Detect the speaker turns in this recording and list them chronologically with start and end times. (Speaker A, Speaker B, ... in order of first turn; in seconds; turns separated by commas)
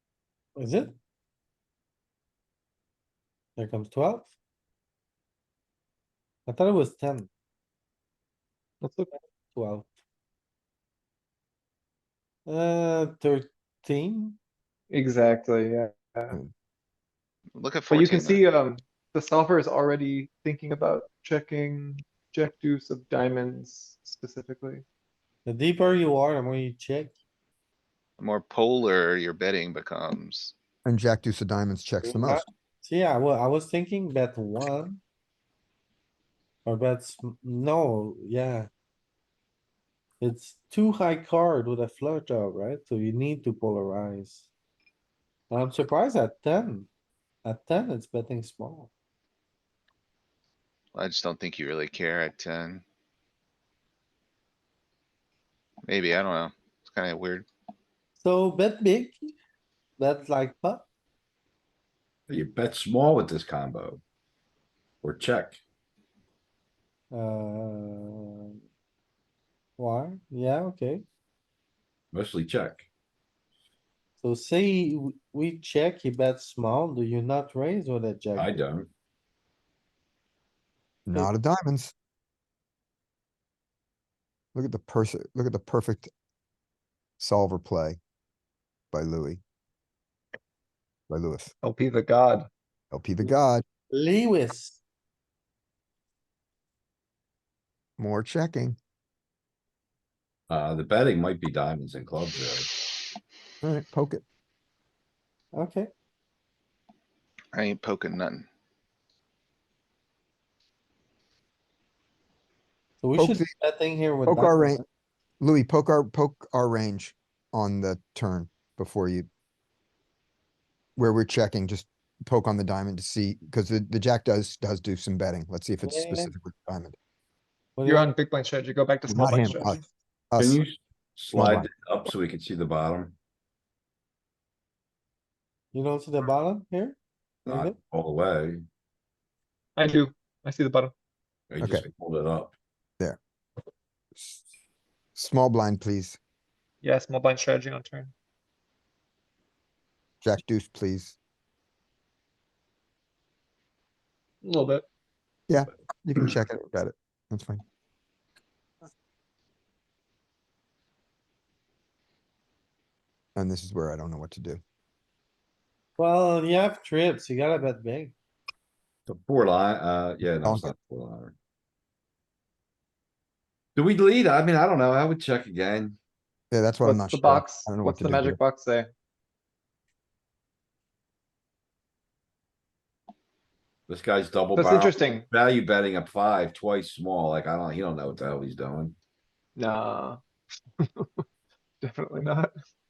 Speaker A: 0.6-0.9, Speaker A: 3.6-4.3, Speaker A: 6.5-7.3, Speaker B: 8.8-9.1, Speaker A: 9.5-9.9, Speaker A: 12.5-14.4, Speaker B: 14.9-16.4, Speaker C: 17.6-18.4, Speaker B: 17.9-24.8, Speaker A: 25.5-27.1, Speaker C: 28.2-30.5, Speaker D: 30.9-32.4, Speaker A: 32.0-35.0, Speaker A: 36.6-38.7, Speaker A: 40.2-44.5, Speaker A: 45.5-46.9, Speaker A: 47.5-48.9, Speaker C: 51.0-52.8, Speaker C: 55.9-57.5, Speaker A: 58.2-59.3, Speaker A: 60.0-60.8, Speaker E: 62.3-64.0, Speaker E: 65.0-65.6, Speaker A: 67.1-68.6, Speaker A: 69.8-71.0, Speaker E: 72.1-72.9, Speaker A: 74.2-78.6, Speaker E: 78.3-78.9, Speaker D: 81.1-81.9, Speaker D: 84.5-86.1, Speaker D: 87.2-88.0, Speaker D: 88.9-89.4, Speaker D: 91.1-91.5, Speaker B: 91.6-92.5, Speaker D: 92.9-93.6, Speaker A: 93.9-94.8, Speaker D: 98.0-98.8, Speaker E: 100.5-102.8, Speaker D: 103.6-104.2, Speaker A: 105.5-105.9, Speaker C: 107.5-108.5, Speaker A: 113.0-114.8, Speaker D: 113.2-113.5, Speaker D: 114.3-114.8, Speaker D: 115.4-119.3, Speaker D: 121.0-127.0, Speaker A: 125.8-126.3, Speaker A: 127.8-128.1, Speaker B: 127.8-129.8, Speaker D: 129.1-130.6, Speaker E: 130.4-133.2, Speaker D: 131.3-131.7, Speaker A: 135.7-137.8, Speaker E: 137.5-138.7, Speaker B: 139.8-140.9, Speaker E: 141.5-142.6, Speaker D: 144.2-144.4, Speaker D: 145.2-146.2, Speaker B: 146.8-148.1, Speaker D: 150.2-151.2, Speaker B: 154.4-154.8, Speaker D: 155.5-157.6, Speaker D: 163.4-164.6, Speaker A: 166.0-168.1, Speaker E: 169.1-171.3, Speaker D: 170.4-170.7, Speaker E: 173.8-176.0, Speaker D: 176.5-178.4, Speaker B: 176.8-178.9, Speaker E: 183.9-189.0, Speaker B: 184.6-185.3, Speaker B: 189.6-190.2, Speaker B: 190.8-191.2, Speaker B: 191.8-192.6